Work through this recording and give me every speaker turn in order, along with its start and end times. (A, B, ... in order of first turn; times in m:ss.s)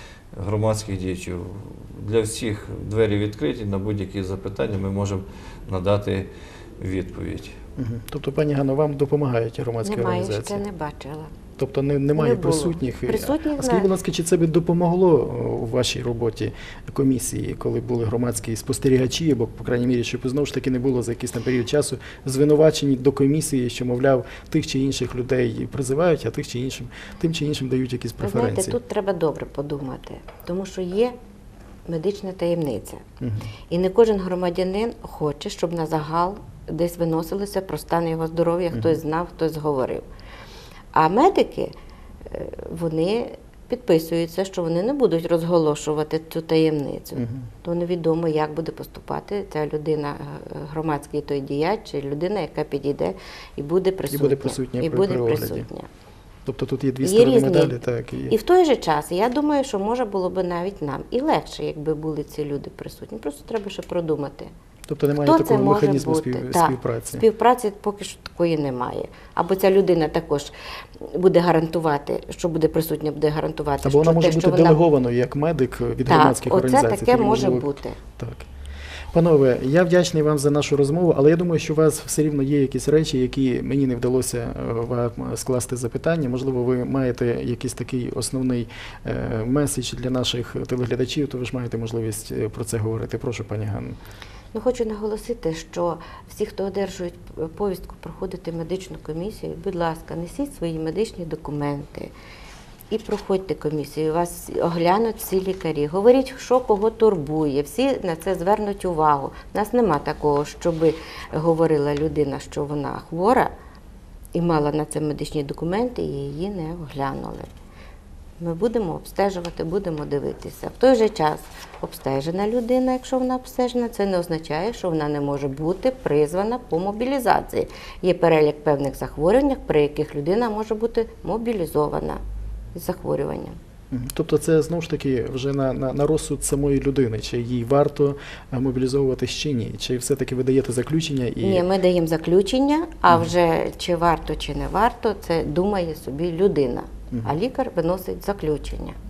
0:00.3-0:07.6 A
0:07.8-0:10.6 B
0:09.8-0:11.3 C
0:11.6-0:28.8 B
0:12.1-0:13.9 C
0:28.2-0:31.1 C
0:31.9-0:33.0 C
0:33.2-0:33.4 B
0:33.7-0:40.0 C
0:38.7-0:39.0 B
0:40.9-0:41.7 C
0:42.2-0:55.9 C
0:47.2-0:47.4 B
0:54.1-0:55.7 B
0:56.4-0:58.3 B
0:57.0-0:57.8 C
0:58.3-1:04.5 C
1:04.9-1:07.2 B
1:05.2-1:14.8 C
1:13.8-1:17.6 B
1:16.1-1:18.0 C
1:18.2-1:18.5 B
1:19.1-1:34.0 B
1:34.5-1:42.1 C
1:42.9-1:53.5 C
1:54.3-1:57.5 C
1:58.4-2:12.2 C
2:12.7-2:13.6 C
2:13.9-2:21.6 B
2:21.4-2:29.0 C